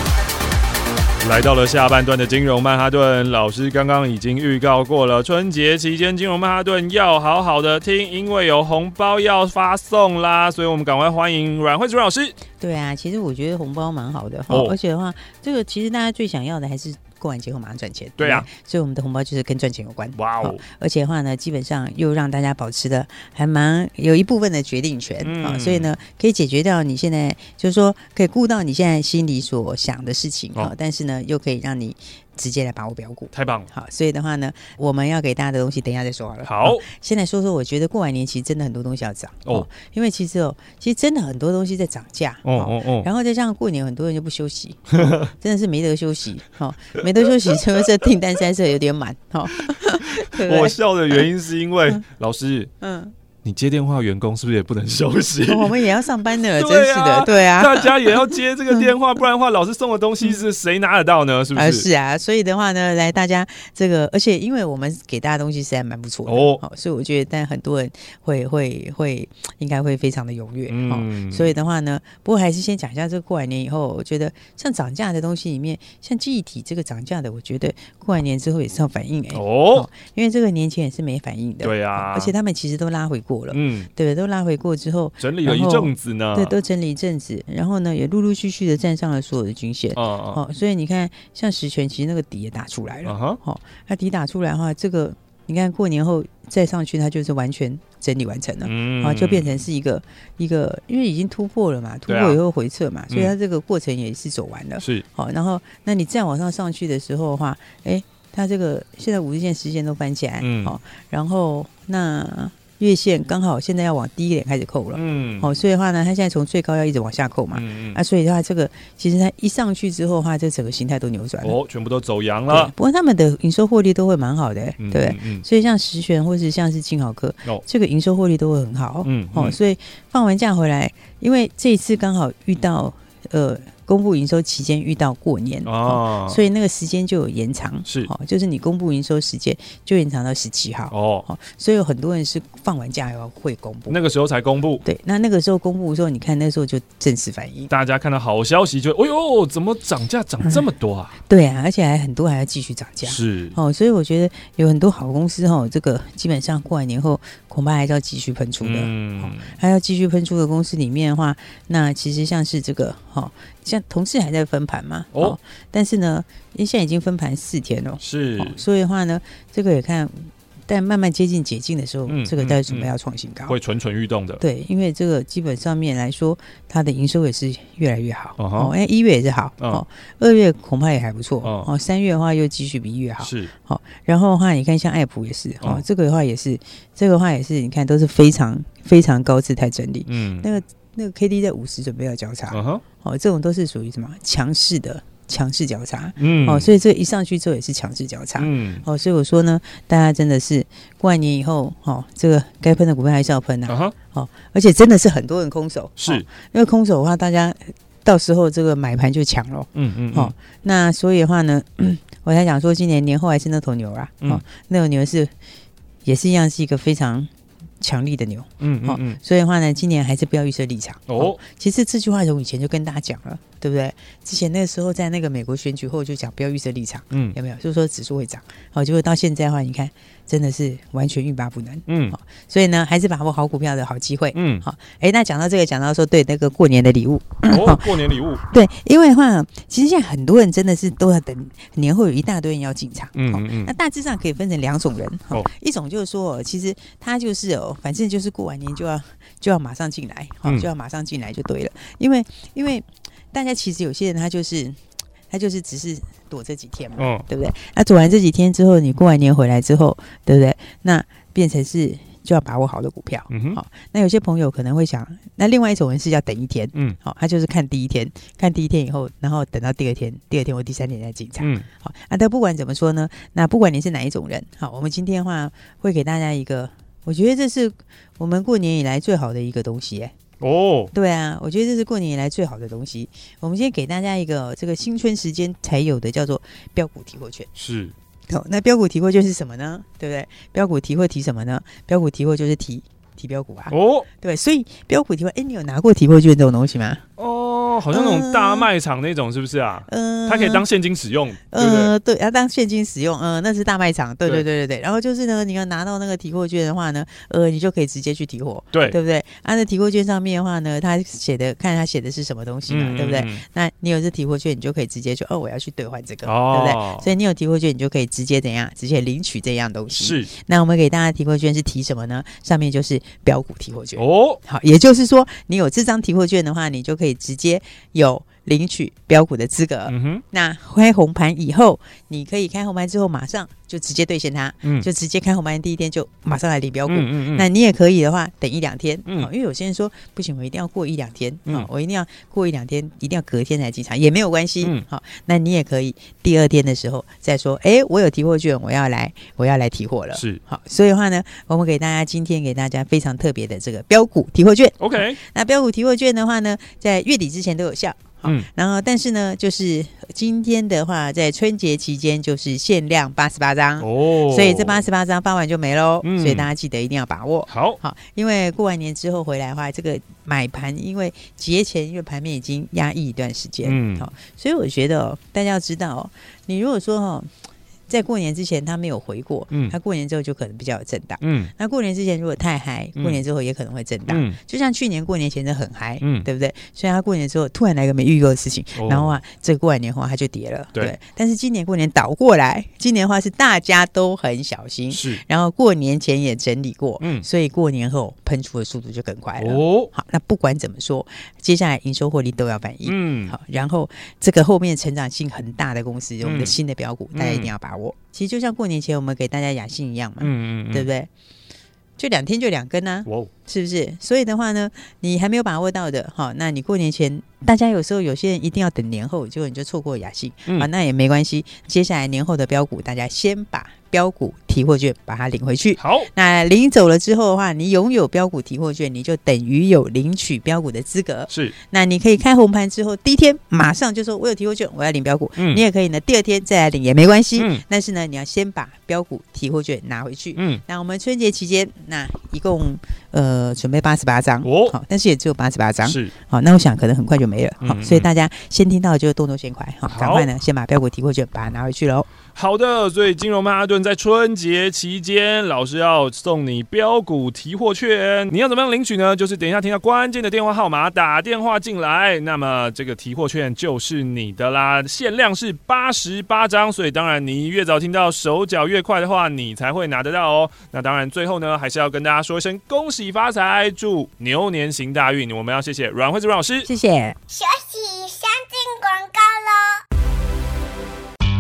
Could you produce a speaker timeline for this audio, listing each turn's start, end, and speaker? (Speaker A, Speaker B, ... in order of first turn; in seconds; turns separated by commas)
Speaker A: 1.2-12.4, Speaker B: 12.6-50.8, Speaker A: 14.5-14.8, Speaker A: 18.2-18.5, Speaker A: 20.1-20.6, Speaker A: 25.2-25.9, Speaker A: 33.3-33.7, Speaker A: 36.4-36.9, Speaker A: 42.5-43.1, Speaker A: 44.9-45.3, Speaker A: 49.6-52.7, Speaker B: 52.8-53.1, Speaker A: 53.4-55.8, Speaker B: 55.5-58.9, Speaker A: 56.5-61.9, Speaker B: 61.5-121.6, Speaker A: 66.3-66.6, Speaker A: 70.7-71.5, Speaker A: 79.3-79.9, Speaker A: 81.6-82.3, Speaker A: 83.5-83.9, Speaker A: 85.2-86.5, Speaker A: 90.0-90.4, Speaker A: 93.0-93.4, Speaker A: 98.6-99.6, Speaker A: 102.1-102.4, Speaker A: 110.4-110.8, Speaker A: 114.9-115.5, Speaker A: 117.5-118.0, Speaker A: 121.4-122.7, Speaker B: 122.5-144.0, Speaker A: 124.8-125.5, Speaker A: 129.0-129.6, Speaker A: 135.7-136.4, Speaker A: 137.9-138.1, Speaker A: 140.9-141.3, Speaker A: 143.9-144.8, Speaker B: 144.8-147.7, Speaker A: 147.7-151.2, Speaker B: 151.3-173.6, Speaker A: 153.0-153.6, Speaker A: 158.6-159.6, Speaker A: 165.1-165.4, Speaker A: 168.0-168.6, Speaker A: 172.1-172.9, Speaker A: 173.5-174.4, Speaker B: 174.4-215.3, Speaker A: 178.4-178.7, Speaker A: 181.4-181.7, Speaker A: 183.2-183.5, Speaker A: 190.1-190.5, Speaker A: 192.5-192.8, Speaker A: 196.2-196.7, Speaker A: 198.4-198.8, Speaker A: 203.7-203.9, Speaker A: 206.0-206.3, Speaker A: 209.8-210.3, Speaker B: 216.1-280.1, Speaker A: 218.6-219.2, Speaker A: 221.1-221.4, Speaker A: 231.9-232.2, Speaker A: 234.3-234.7, Speaker A: 237.4-238.4, Speaker A: 243.2-243.7, Speaker A: 257.0-257.3, Speaker A: 263.3-263.6, Speaker A: 271.4-271.7, Speaker A: 280.4-280.9, Speaker B: 280.9-287.5, Speaker A: 287.6-287.9, Speaker B: 288.3-297.0, Speaker A: 293.7-294.1, Speaker A: 297.2-301.9, Speaker B: 297.9-298.7, Speaker B: 299.9-300.6, Speaker B: 301.5-377.3, Speaker A: 312.7-313.4, Speaker A: 316.2-317.1, Speaker A: 320.0-320.3, Speaker A: 324.0-324.4, Speaker A: 329.9-330.2, Speaker A: 336.9-337.5, Speaker A: 350.1-350.4, Speaker A: 354.8-355.2, Speaker A: 363.8-364.8, Speaker A: 366.0-366.5, Speaker A: 367.5-367.8, Speaker A: 373.6-374.1, Speaker B: 377.9-411.1, Speaker A: 379.5-379.8, Speaker A: 381.2-381.5, Speaker A: 383.0-383.2, Speaker A: 384.1-384.4, Speaker A: 386.0-386.3, Speaker A: 388.8-389.2, Speaker A: 394.9-395.2, Speaker A: 397.0-397.2, Speaker A: 399.4-399.9, Speaker A: 402.9-403.4, Speaker A: 406.2-406.6, Speaker A: 407.1-407.5, Speaker A: 410.2-410.9, Speaker B: 412.0-452.1, Speaker A: 413.1-413.3, Speaker A: 425.8-426.1, Speaker A: 431.3-431.6, Speaker A: 435.4-435.6, Speaker A: 437.4-437.6, Speaker A: 440.4-440.6, Speaker A: 444.4-444.8, Speaker A: 445.8-446.1, Speaker A: 447.6-448.1, Speaker A: 449.9-450.3, Speaker A: 452.4-476.7, Speaker B: 476.7-477.2, Speaker C: 477.3-479.8